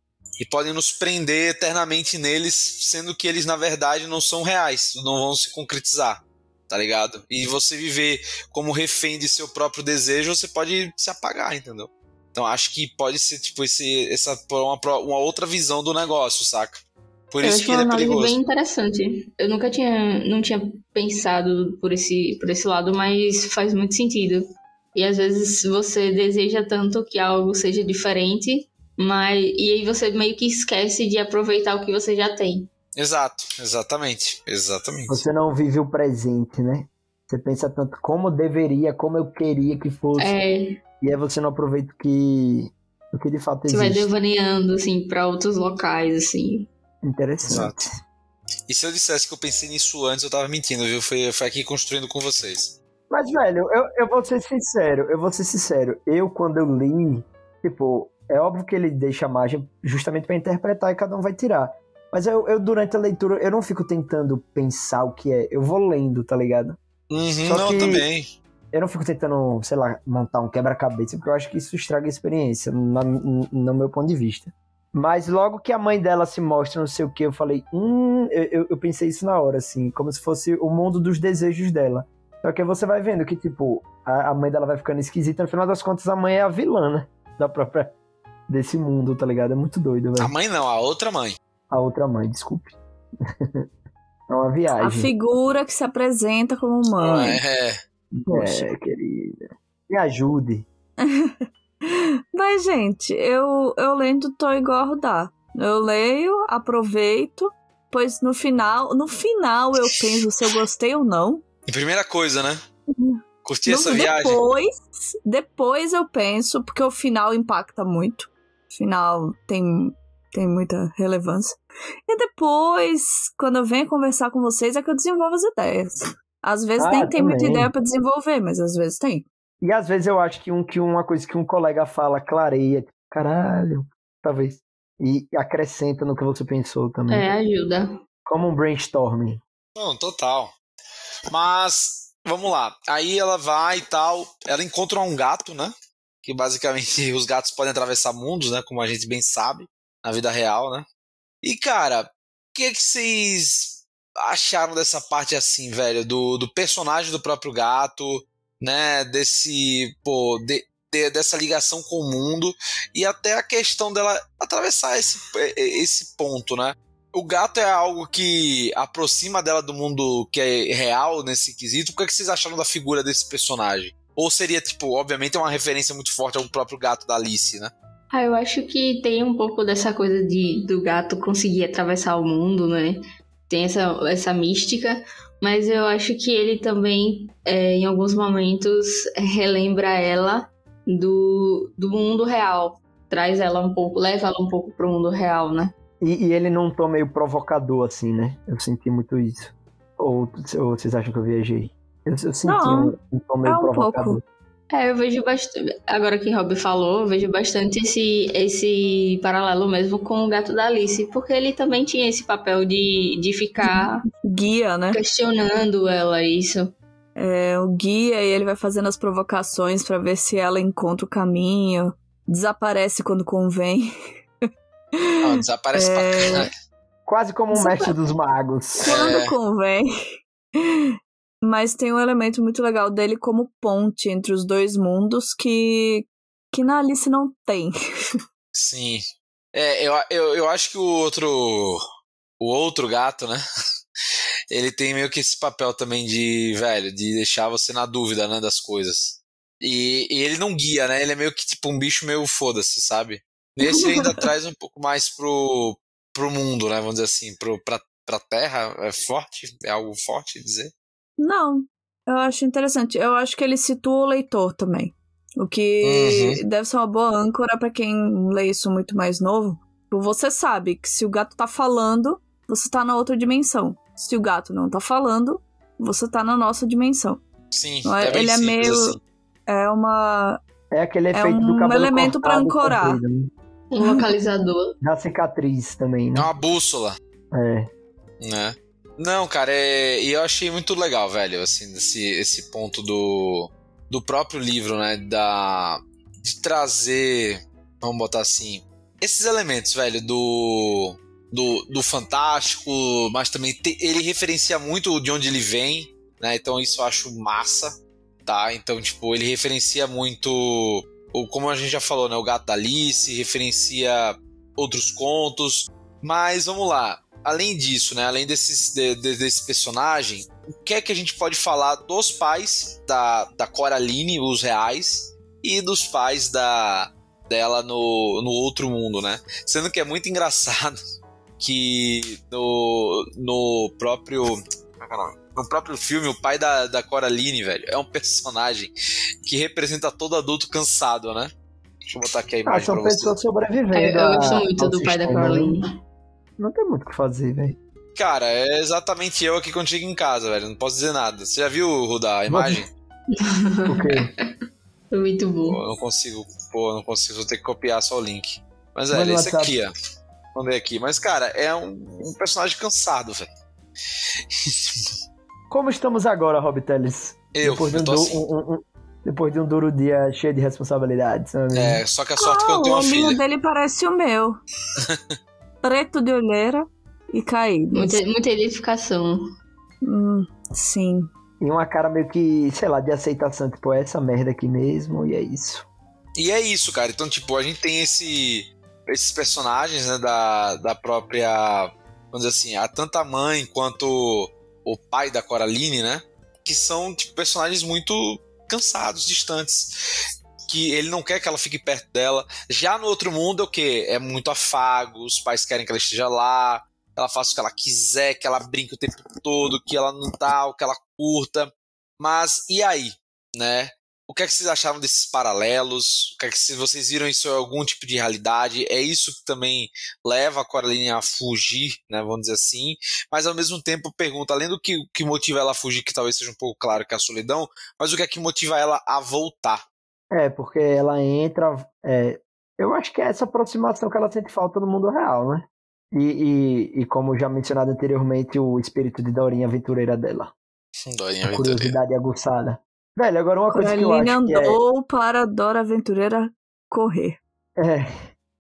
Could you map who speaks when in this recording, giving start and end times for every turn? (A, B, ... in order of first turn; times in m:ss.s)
0:00.4-0:18.4 A
0:17.4-0:32.7 B
0:33.0-0:35.2 A
0:35.1-0:40.4 C
0:40.2-0:40.8 B
0:41.0-0:44.1 C
0:43.7-0:46.7 B
0:47.0-0:47.9 C
0:47.4-0:47.8 A
0:48.7-0:52.8 A
0:53.1-1:06.8 C
1:07.1-1:08.3 A
1:07.4-1:08.1 C
1:08.7-1:27.9 C
1:28.5-1:30.3 C
1:30.2-1:31.4 A
1:31.7-1:32.8 C
1:34.3-1:35.1 C
1:34.8-1:37.4 D
1:37.0-1:37.8 A
1:38.2-1:40.7 C
1:38.3-1:38.7 D
1:41.0-1:51.4 D
1:51.7-1:52.6 A
1:52.9-2:09.3 D
1:53.4-1:54.4 A
2:06.8-2:07.7 C
2:09.6-2:17.3 C
2:17.1-2:17.9 B
2:18.3-2:19.4 C
2:19.8-2:20.5 A
2:21.3-2:25.7 A
2:26.2-2:30.9 A
2:31.4-2:57.7 A
2:58.1-3:15.7 B
3:16.0-3:24.2 C
3:22.5-3:22.9 D
3:23.4-3:24.2 D
3:24.7-3:34.0 B
3:33.6-3:35.0 D
3:34.9-3:36.8 B
3:37.2-3:43.9 D
3:45.2-3:46.5 A
3:45.7-3:46.5 D
3:47.1-3:48.9 C
3:47.5-3:48.0 D
3:48.8-3:49.9 D
3:48.9-3:49.3 A
3:50.6-3:50.9 D
3:51.4-3:57.7 D
3:58.5-3:59.0 A
3:59.5-4:01.8 A
4:02.4-4:03.4 A
4:04.5-4:20.7 A
4:13.7-4:14.2 D
4:21.2-4:37.2 D
4:25.8-4:26.4 A
4:37.5-4:39.0 A
4:37.8-4:40.4 D
4:40.7-4:43.3 C
4:41.1-4:43.0 D
4:43.7-4:44.7 B
4:44.8-4:46.3 C
4:46.2-4:47.0 A
4:47.3-4:47.7 C
4:48.2-5:30.8 A
5:31.4-5:38.7 A
5:39.2-5:41.3 A
5:41.9-5:43.2 A
5:42.5-5:45.6 C
5:43.7-5:45.7 B
5:46.4-5:47.6 C
5:48.0-5:52.7 A
5:52.3-5:52.6 C
5:53.2-5:54.0 B
5:53.7-5:54.1 C
5:54.9-5:55.6 B
5:55.5-5:59.7 A
5:58.9-5:59.6 C
6:00.3-6:03.3 A
6:04.4-6:04.9 A
6:05.5-6:11.8 C
6:07.3-6:08.2 A
6:11.5-6:13.2 A
6:12.2-6:14.4 D
6:14.9-6:15.2 A
6:15.6-6:18.0 D
6:17.7-6:19.2 B
6:19.8-6:21.1 D
6:21.4-6:25.7 C
6:26.2-6:39.7 A
6:40.5-7:09.6 A
7:10.1-7:20.3 C
7:20.8-7:21.8 A
7:21.2-7:24.6 C
7:23.5-7:27.2 D
7:27.6-7:27.9 C